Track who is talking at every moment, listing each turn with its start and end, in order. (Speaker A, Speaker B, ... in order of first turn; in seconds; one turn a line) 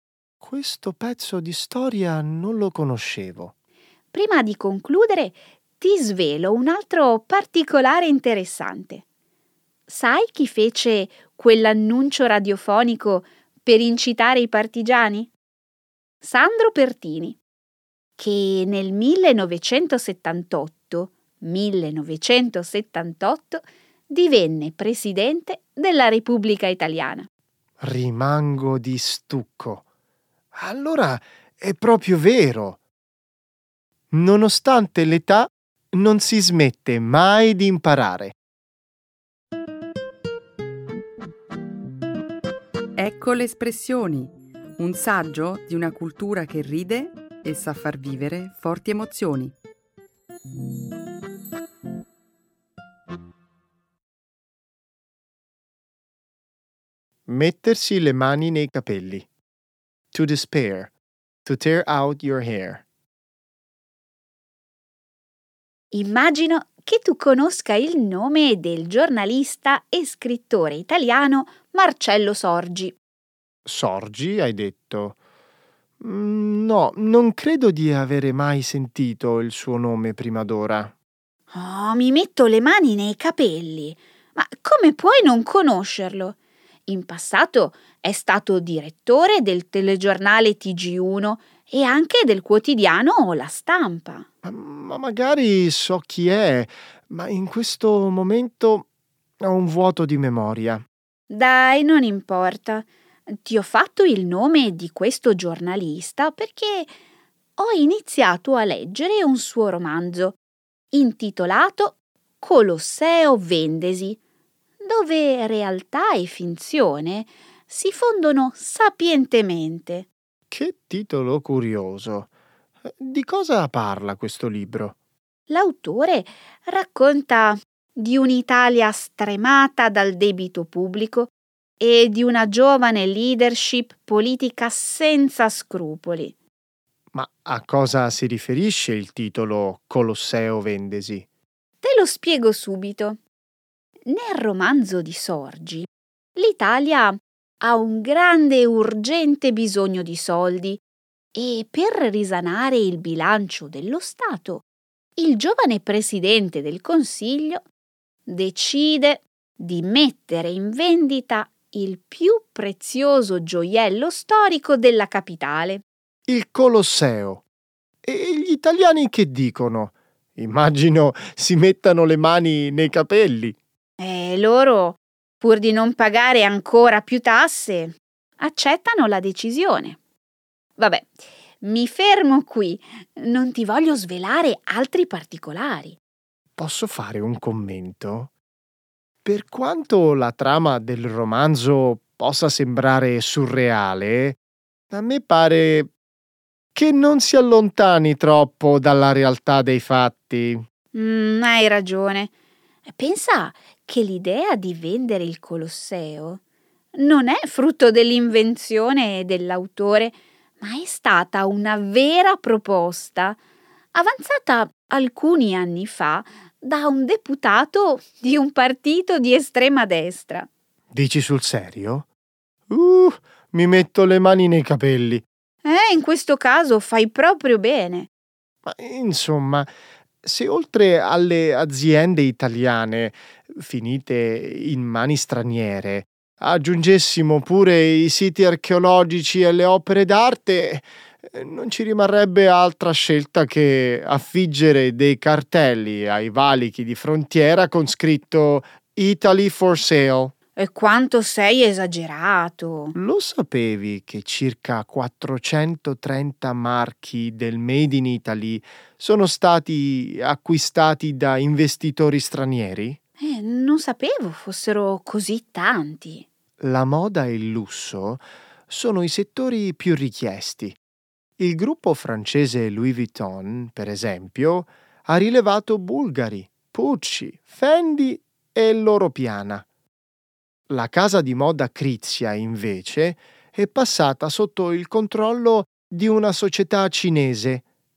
Speaker A: 0.4-3.5
Speaker B: 4.1-9.0
Speaker B: 9.9-15.3
Speaker B: 16.2-17.4
Speaker B: 18.2-27.3
Speaker A: 27.8-29.8
Speaker A: 30.5-32.8
Speaker A: 34.1-38.3
Speaker C: 43.0-49.5
Speaker A: 57.3-59.3
Speaker A: 60.1-60.9
Speaker A: 61.4-62.8
Speaker B: 65.9-72.9
Speaker A: 73.6-75.2
Speaker A: 76.0-80.9
Speaker B: 81.5-94.3
Speaker A: 94.4-98.9
Speaker A: 99.4-100.8
Speaker B: 101.3-106.9
Speaker B: 107.6-110.4
Speaker B: 110.9-114.2
Speaker B: 114.8-120.1
Speaker A: 120.5-122.3
Speaker A: 122.9-124.9
Speaker B: 125.5-136.3
Speaker A: 137.1-141.2
Speaker B: 141.8-143.2
Speaker B: 144.1-150.8
Speaker B: 151.3-154.6
Speaker B: 155.2-157.7
Speaker B: 158.2-165.8
Speaker A: 166.3-167.4
Speaker A: 168.0-173.6
Speaker B: 174.0-180.0
Speaker B: 180.8-186.0
Speaker A: 186.6-188.3
Speaker A: 189.2-194.4
Speaker A: 194.9-195.9
Speaker A: 196.7-200.6
Speaker B: 200.9-202.3
Speaker B: 202.8-206.4
Speaker B: 206.9-213.4
Speaker B: 213.9-220.5
Speaker A: 220.9-222.1
Speaker A: 222.7-225.2
Speaker B: 225.6-228.1
Speaker A: 228.6-229.7
Speaker A: 230.2-250.3
Speaker B: 250.6-252.9
Speaker A: 252.9-263.0
Speaker B: 263.2-266.2
Speaker A: 266.6-270.8
Speaker A: 271.4-279.6
Speaker A: 280.7-287.6